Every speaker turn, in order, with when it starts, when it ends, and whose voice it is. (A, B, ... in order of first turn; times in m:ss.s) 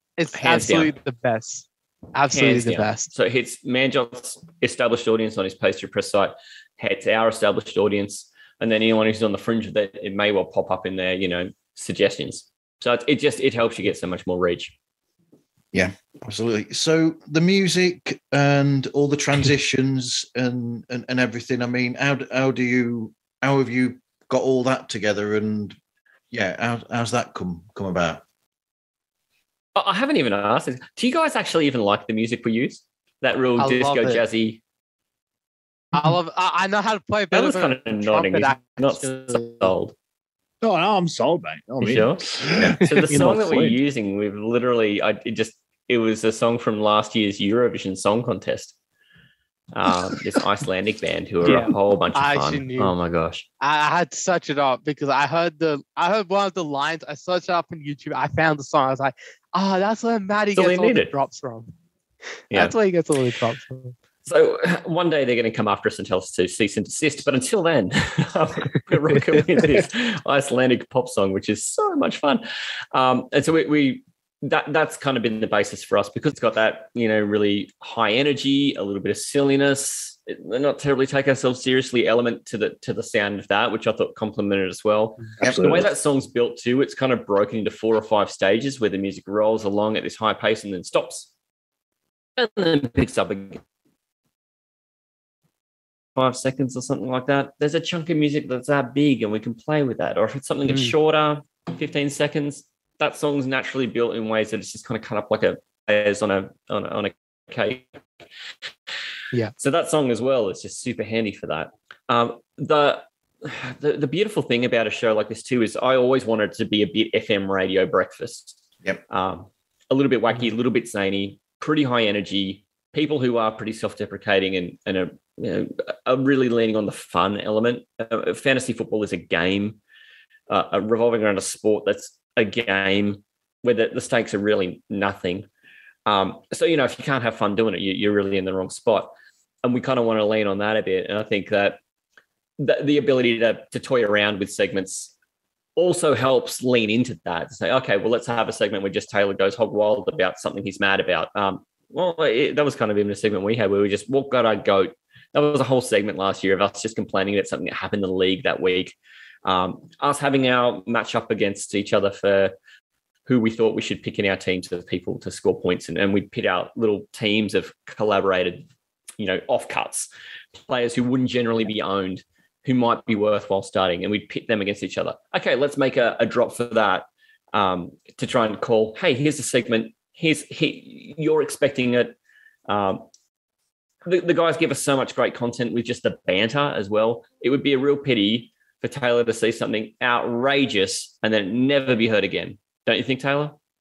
0:00.2-0:03.1 A
0:00.3-0:00.9 B
0:02.3-0:14.7 B
0:15.7-0:25.8 C
0:26.3-0:28.2 C
0:29.7-0:34.6 B
0:33.6-0:34.2 A
0:35.9-0:39.7 A
0:37.3-0:39.9 B
0:40.6-0:43.8 D
0:41.8-0:42.2 B
0:42.8-0:48.7 B
0:49.7-0:53.4 B
0:51.4-0:52.9 A
0:53.6-1:01.7 A
1:00.5-1:01.1 B
1:02.5-1:03.9 A
1:04.2-1:31.3 B
1:25.4-1:25.9 D
1:25.4-1:25.7 C
1:32.4-1:33.6 B
1:36.2-1:47.8 B
1:40.7-1:40.9 A
1:49.6-1:58.6 B
1:59.1-2:09.8 B
2:10.5-2:15.4 B
2:16.0-2:19.1 B
2:19.6-2:21.8 B
2:22.6-2:25.1 B
2:25.8-2:42.5 B
2:43.2-2:48.6 B
2:49.2-3:02.1 B
3:02.7-3:03.0 B
3:04.0-3:13.6 B